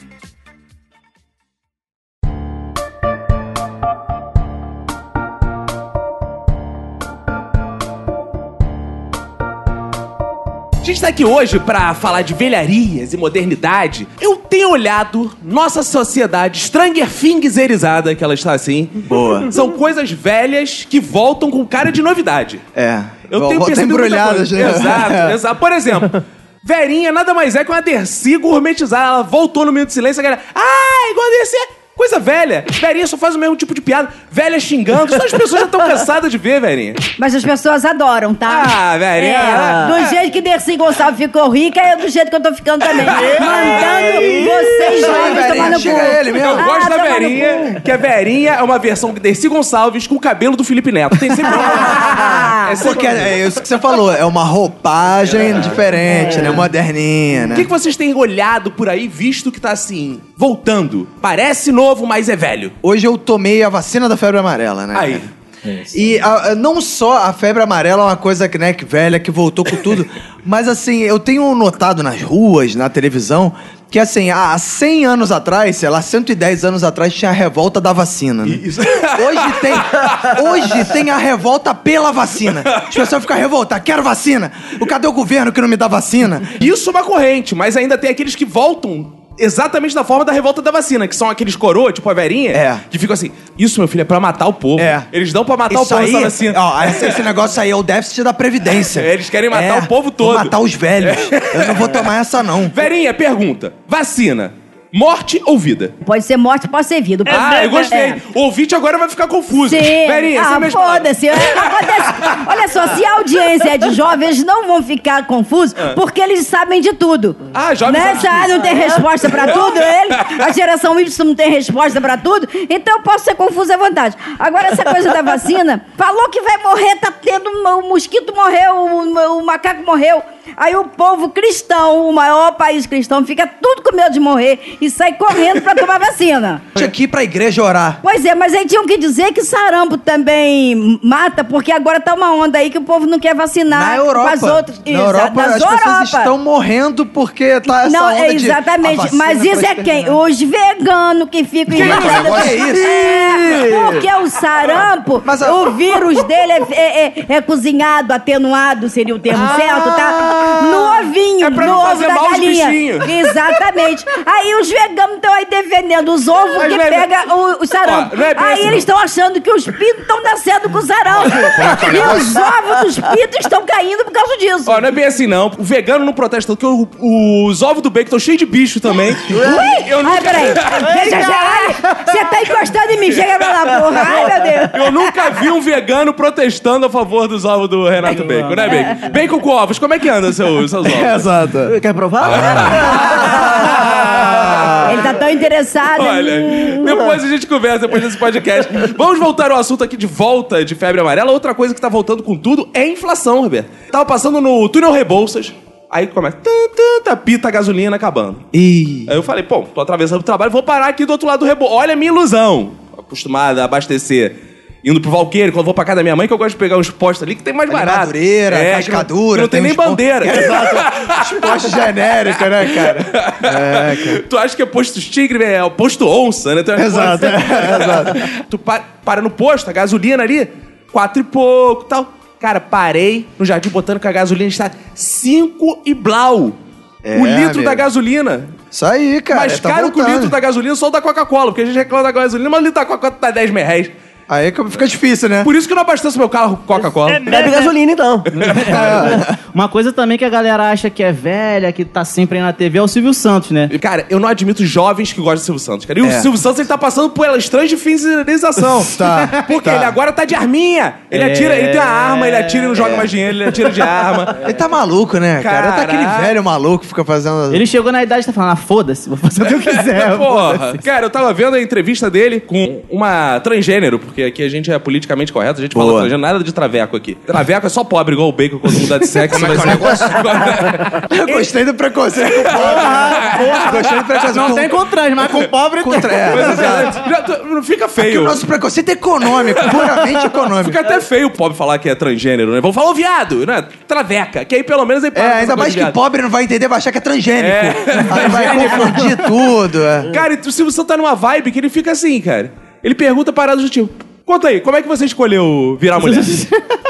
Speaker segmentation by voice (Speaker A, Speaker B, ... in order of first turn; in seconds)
Speaker A: 10.8-22.6, 23.3-37.0, 38.5-40.1, 42.9-44.4, 45.0-53.3, 57.5-62.7, 64.9-65.2, 78.4-80.3, 82.6-83.1, 86.6-97.2, 98.7-102.1, 102.7-105.9, 107.2-112.3, 117.5-120.4, 151.7-152.6, 159.3-163.1, 166.4-167.1, 167.8-168.8, 174.7-180.9, 184.7-191.2, 192.2-195.0, 195.9-208.4, 209.1-221.8, 222.5-236.6, 237.1-238.5, 239.3-243.9, 245.4-247.4, 253.7-264.4, 265.4-266.4, 269.4-281.5, 282.3-284.2, 286.3-288.4, 289.4-290.0, 290.6-295.9, 297.4-299.1, 300.1-306.4
Speaker B: 19.1-19.5, 22.7-25.4, 44.9-46.7, 52.8-57.7, 62.8-65.3, 65.9-86.5, 92.5-92.8, 94.8-95.1, 95.7-102.8, 136.7-138.0, 143.7-150.1, 151.7-153.0, 155.2-155.7, 190.8-191.8, 194.3-194.7, 208.5-209.1, 217.7-224.2, 226.8-228.2, 237.0-237.8, 238.7-240.3, 244.3-245.5, 248.6-249.3, 256.0-256.3, 258.7-260.0, 262.7-263.1, 264.4-267.6, 275.7-276.1, 279.2-280.4, 281.1-287.0, 288.0-290.8, 295.1-300.1
Speaker C: 37.2-47.8, 51.5-52.8, 106.0-108.2, 109.5-136.7, 138.0-146.3, 147.8-174.8, 179.4-185.1, 194.8-196.9
Speaker D: 39.2-40.0, 43.4-45.2, 51.7-52.3, 56.2-56.5, 153.5-153.9, 179.3-179.8, 191.6-194.9, 196.8-197.2, 246.8-248.3
Speaker E: 43.2-43.9, 180.8-182.2, 188.1-189.0, 247.1-247.7, 248.4-253.7, 261.1-262.7, 267.5-270.8, 282.6-286.9, 306.0-306.6